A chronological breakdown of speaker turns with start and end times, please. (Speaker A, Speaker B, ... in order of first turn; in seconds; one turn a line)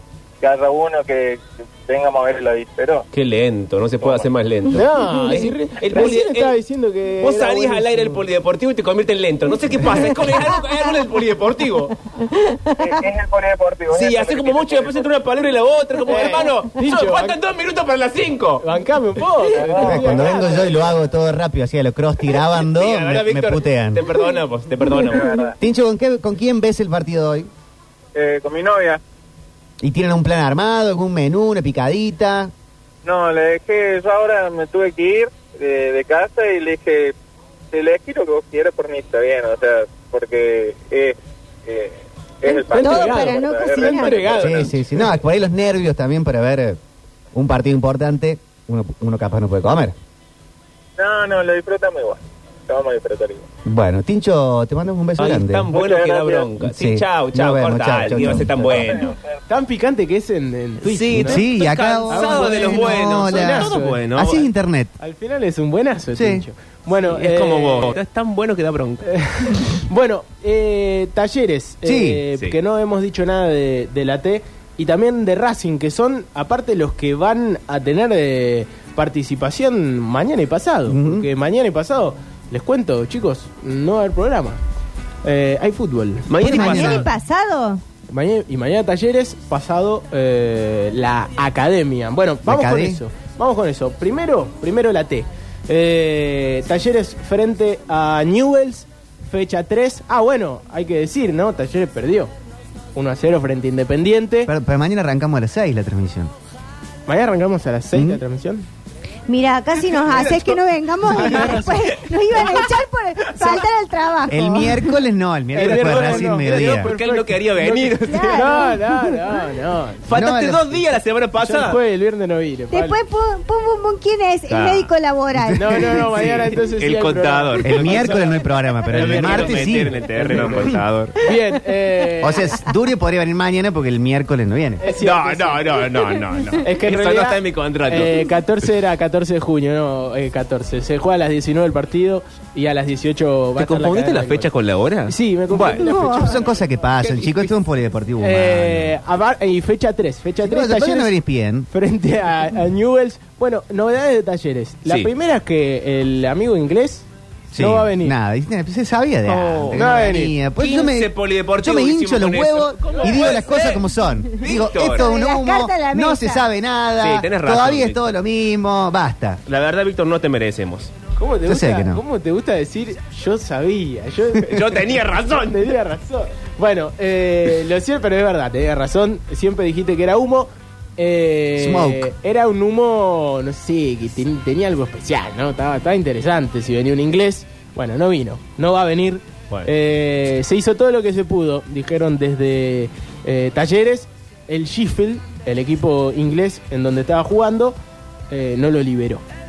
Speaker A: 0.4-3.1
Speaker B: 3.1-6.5
Speaker A: 4.0-4.3
Speaker C: 4.7-8.2
Speaker B: 7.2-12.0
Speaker D: 12.4-12.8
Speaker A: 12.8-15.1
Speaker B: 13.9-18.6
Speaker C: 16.1-17.4
Speaker C: 18.6-20.9
Speaker A: 19.5-20.9
Speaker E: 19.8-24.1
Speaker B: 22.6-25.4
Speaker A: 24.9-25.6
Speaker E: 25.6-27.5
Speaker A: 28.1-29.0
Speaker E: 29.8-32.5
Speaker A: 33.0-37.1
Speaker A: 37.7-44.6
Speaker D: 42.5-44.5
Speaker C: 42.7-45.1
Speaker E: 44.4-46.8
Speaker E: 47.3-50.0
Speaker A: 51.0-53.5
Speaker E: 53.6-55.7
Speaker B: 55.2-59.1
Speaker A: 55.7-56.5
Speaker E: 56.6-58.9
Speaker A: 58.2-59.2
Speaker C: 59.5-61.4
Speaker B: 60.8-64.5
Speaker E: 61.1-64.9
Speaker C: 62.1-64.0
Speaker C: 65.0-68.0
Speaker E: 66.2-66.5
Speaker B: 67.1-69.1
Speaker C: 69.0-84.6
Speaker E: 71.8-72.2
Speaker E: 80.9-81.3
Speaker C: 85.2-86.8
Speaker B: 86.3-87.1
Speaker D: 86.4-87.8
Speaker E: 86.4-87.1
Speaker C: 88.1-102.3
Speaker E: 92.4-93.0
Speaker C: 103.0-104.5
Speaker E: 104.5-106.3
Speaker C: 107.1-108.7
Speaker E: 107.9-108.2
Speaker D: 109.3-115.0
Speaker B: 110.0-111.8
Speaker C: 111.1-112.5
Speaker B: 113.3-113.6
Speaker E: 114.3-116.9
Speaker C: 115.5-120.1
Speaker B: 115.6-118.7
Speaker D: 118.0-119.2
Speaker B: 120.1-121.8
Speaker E: 120.1-120.8
Speaker C: 121.4-123.0
Speaker D: 122.7-126.1
Speaker B: 124.5-124.9
Speaker C: 125.5-128.3
Speaker B: 125.9-131.2
Speaker E: 127.6-130.8
Speaker C: 128.9-132.6
Speaker E: 132.2-134.8
Speaker C: 134.8-135.9
Speaker B: 135.0-138.3
Speaker C: 136.6-144.5
Speaker B: 143.6-145.8
Speaker C: 145.1-147.5
Speaker E: 145.6-149.0
Speaker D: 145.8-146.4
Speaker C: 148.2-151.2
Speaker E: 150.4-151.7
Speaker C: 151.7-158.2
Speaker E: 157.5-169.4
Speaker B: 159.2-163.9
Speaker C: 159.7-160.4
Speaker C: 162.8-163.4
Speaker B: 164.4-165.1
Speaker D: 164.8-166.5
Speaker B: 167.0-168.0
Speaker B: 169.5-170.9
Speaker C: 171.2-197.8
Speaker E: 171.5-172.0
Speaker B: 174.4-175.7
Speaker E: 181.6-182.1
Speaker C: 198.3-199.2